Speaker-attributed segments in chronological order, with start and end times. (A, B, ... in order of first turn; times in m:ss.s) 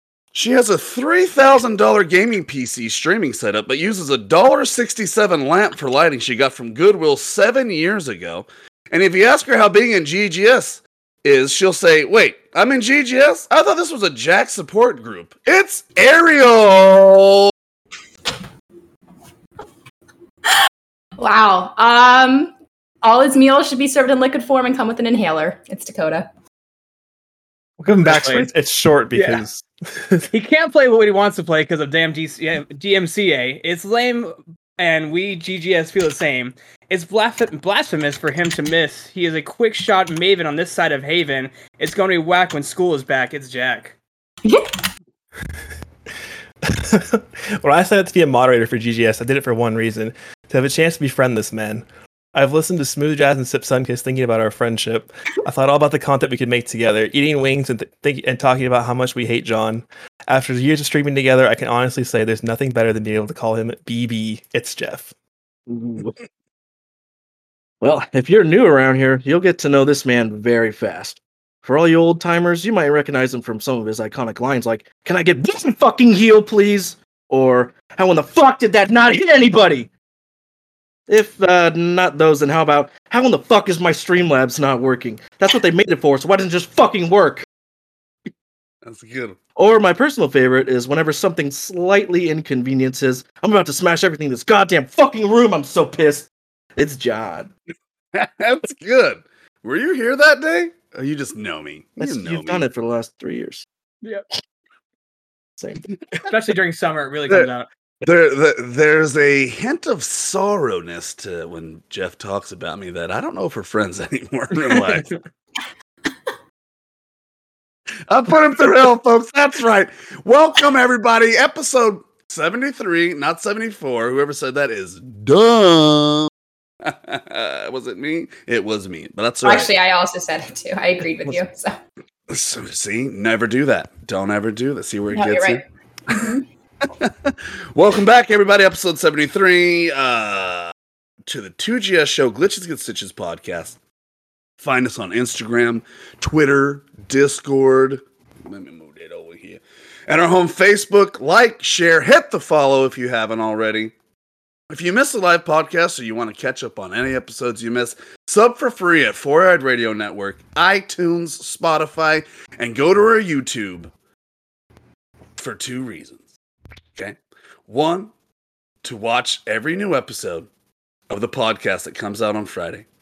0:00.3-0:17.5 A
0:21.2-0:26.3 B
0:27.8-0:30.3 C
0:28.0-0:28.5 D
0:29.1-0:29.4 D
0:30.3-0:44.0 D
0:44.4-0:44.8 B
0:46.7-1:05.1 C
1:05.7-1:06.1 E
1:07.8-1:19.9 E
1:21.1-1:27.5 E
1:28.8-1:29.4 A
1:29.6-1:37.5 E
1:38.1-1:42.7 A
1:42.0-1:43.7 E
1:45.6-1:45.9 E
1:46.3-1:47.7 D
1:48.0-1:55.1 A
1:54.7-1:55.1 D
1:58.1-2:06.3 A
2:06.8-2:09.7 A
2:09.4-2:11.8 B
2:12.3-2:16.3 A
2:15.1-2:16.4 B
2:16.8-2:20.7 A
2:21.3-2:23.8 A
2:24.6-2:33.9 A
2:34.7-2:43.9 A
2:45.4-2:46.2 A
2:47.0-2:48.1 A
2:48.8-2:50.5 A
2:51.1-2:52.9 A